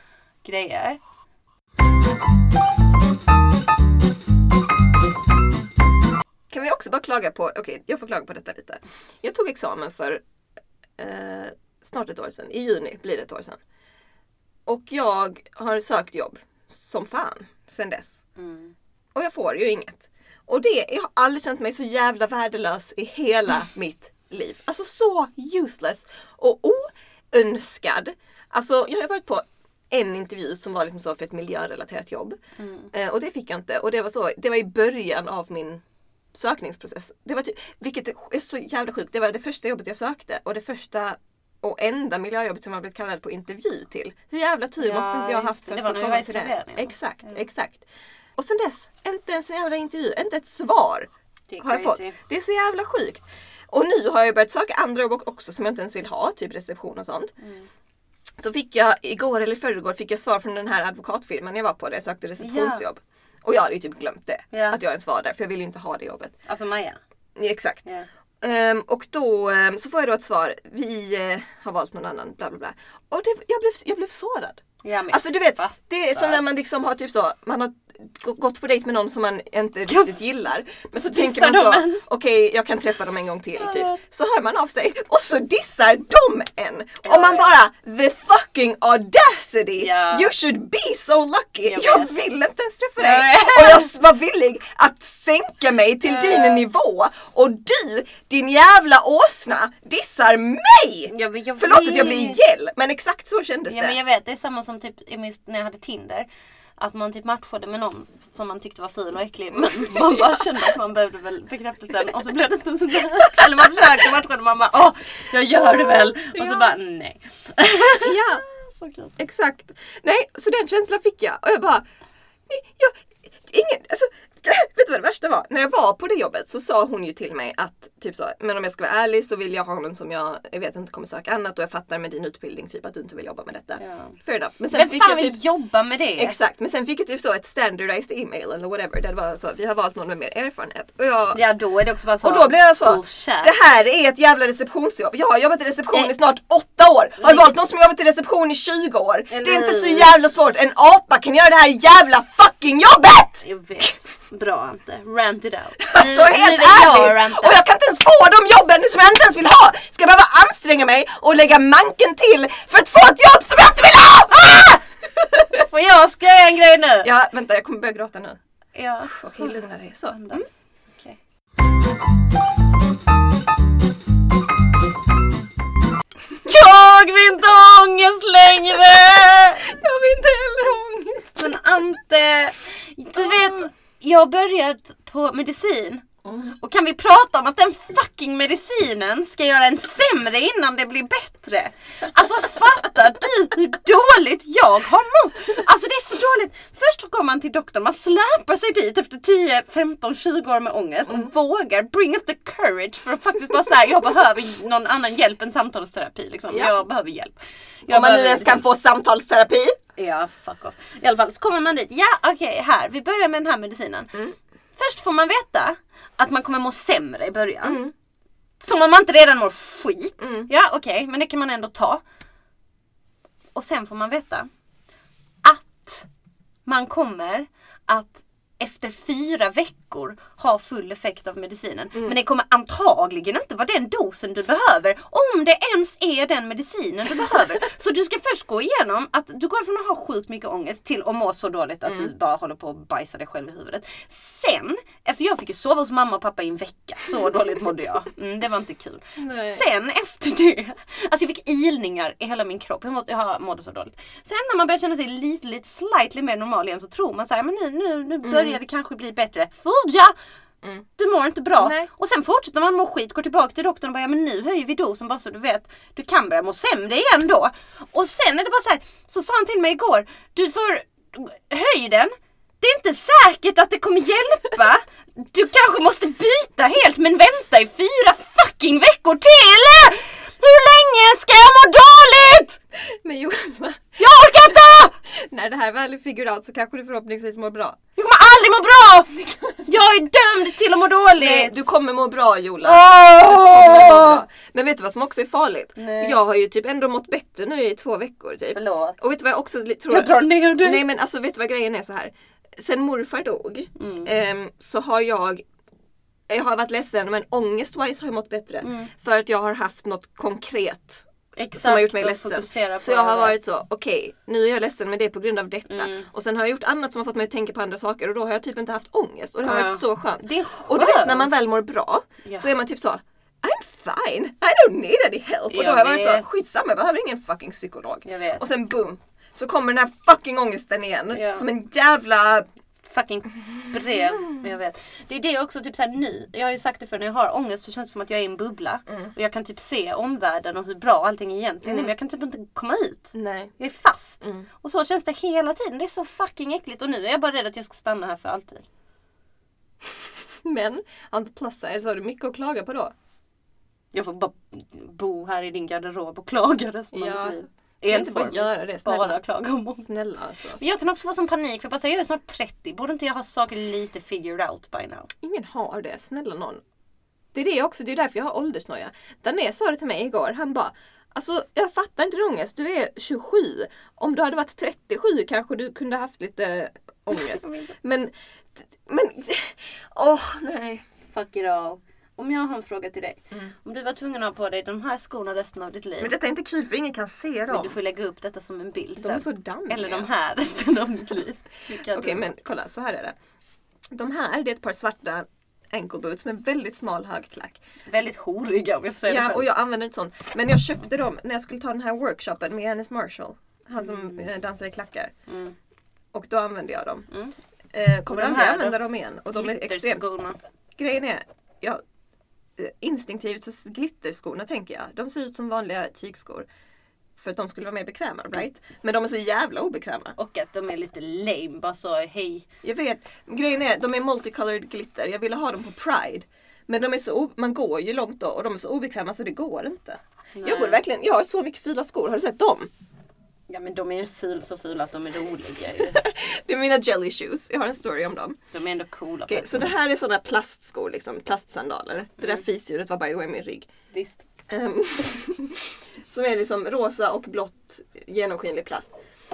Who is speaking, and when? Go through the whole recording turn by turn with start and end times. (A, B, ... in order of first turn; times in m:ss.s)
0:00.4-0:01.0 A
0:06.5-0:10.2 B
0:11.0-0:13.6 B
0:14.6-0:18.2 B
0:18.4-0:18.7 A
0:19.1-0:32.4 B
0:32.6-0:32.9 A
0:32.9-0:35.8 B
0:36.3-0:51.1 B
0:44.8-0:47.4 A
0:51.5-0:52.2 A
0:51.6-0:57.3 B
0:57.4-0:57.7 A
0:58.4-1:06.3 B
1:02.4-1:02.8 A
1:04.5-1:04.8 A
1:06.4-1:07.0 A
1:07.4-1:07.8 B
1:08.4-1:44.0 B
1:14.8-1:16.4 A
1:19.9-1:20.1 A
1:21.0-1:22.0 A
1:23.6-1:24.0 A
1:27.0-1:27.5 A
1:29.8-1:30.3 A
1:31.6-1:32.1 A
1:33.0-1:33.9 A
1:36.0-1:36.7 A
1:41.1-1:42.4 A
1:43.7-1:46.3 A
1:46.8-1:59.1 A
1:49.6-1:50.4 B
1:53.4-1:53.6 B
1:56.1-1:56.7 B
1:57.8-1:58.4 B
1:59.2-2:01.8 B
2:02.5-2:15.4 B
2:13.8-2:14.2 A
2:14.7-2:16.4 A
2:16.2-2:21.4 B
2:21.3-2:23.5 A
2:22.2-2:33.8 B
2:27.2-2:27.5 A
2:29.3-2:30.1 A
2:33.4-2:37.6 A
2:35.8-2:44.7 B
2:44.3-2:44.8 A
2:45.5-2:47.1 A
2:47.0-2:48.4 B
2:48.7-2:51.2 A
2:49.1-2:50.4 B
2:56.4-2:59.6 A
2:59.6-3:01.6 B
3:01.4-3:06.0 A
3:06.2-3:06.5 B
3:06.6-3:28.6 A
3:26.5-3:26.8 B
3:27.9-3:29.8 B
3:30.0-3:34.1 A
3:34.8-3:37.8 A
3:37.6-3:37.9 B
3:38.6-3:42.0 A
3:40.2-3:40.5 B
3:43.5-3:44.5 A
3:45.4-3:46.1 A
3:46.6-4:20.1 A
4:01.8-4:02.1 B
4:09.2-4:09.6 B
4:18.2-4:18.6 B
4:21.0-4:42.6 A
4:21.6-4:21.9 B
4:42.9-4:47.8 B
4:44.0-4:44.9 A
4:48.0-4:51.6 A
4:51.2-5:05.4 B
4:52.6-4:54.2 A
4:55.8-4:56.2 A
4:58.5-4:59.0 A
4:59.9-5:00.8 A
5:03.8-5:04.1 A
5:06.3-5:32.5 B
5:08.6-5:08.9 A
5:11.4-5:13.4 A
5:15.7-5:16.1 A
5:19.4-5:21.3 A
5:22.2-5:22.5 A
5:25.5-5:26.2 A
5:28.0-5:28.5 A
5:31.1-5:31.4 A
5:32.8-5:48.6 A
5:41.6-5:41.9 B
5:43.1-5:43.5 B
5:44.2-5:44.5 B
5:50.4-5:52.9 B
5:53.9-5:59.9 A
5:56.9-5:59.2 B
5:59.8-6:00.6 B
6:00.6-6:05.1 A
6:05.2-6:06.6 B
6:07.3-6:20.8 B
6:17.1-6:17.7 A
6:21.1-6:26.1 A
6:26.0-6:27.7 B
6:27.5-6:32.3 A
6:29.0-6:30.1 B
6:31.7-6:33.1 B
6:33.9-6:37.6 B
6:37.9-6:39.5 A
6:39.1-6:45.1 B
6:43.8-6:44.2 A
6:45.3-6:45.6 A
6:46.1-6:47.1 B
6:47.7-6:50.0 B
6:48.1-6:50.4 A
6:50.8-6:51.8 B
6:52.6-6:56.4 B
6:57.2-7:00.1 B
7:00.2-7:02.4 A
7:02.6-7:12.7 B
7:10.3-7:10.8 A
7:13.5-7:16.0 A
7:15.8-7:18.4 B
7:18.5-7:19.7 A
7:19.3-7:23.7 B
7:23.9-7:24.2 A
7:24.5-7:28.9 B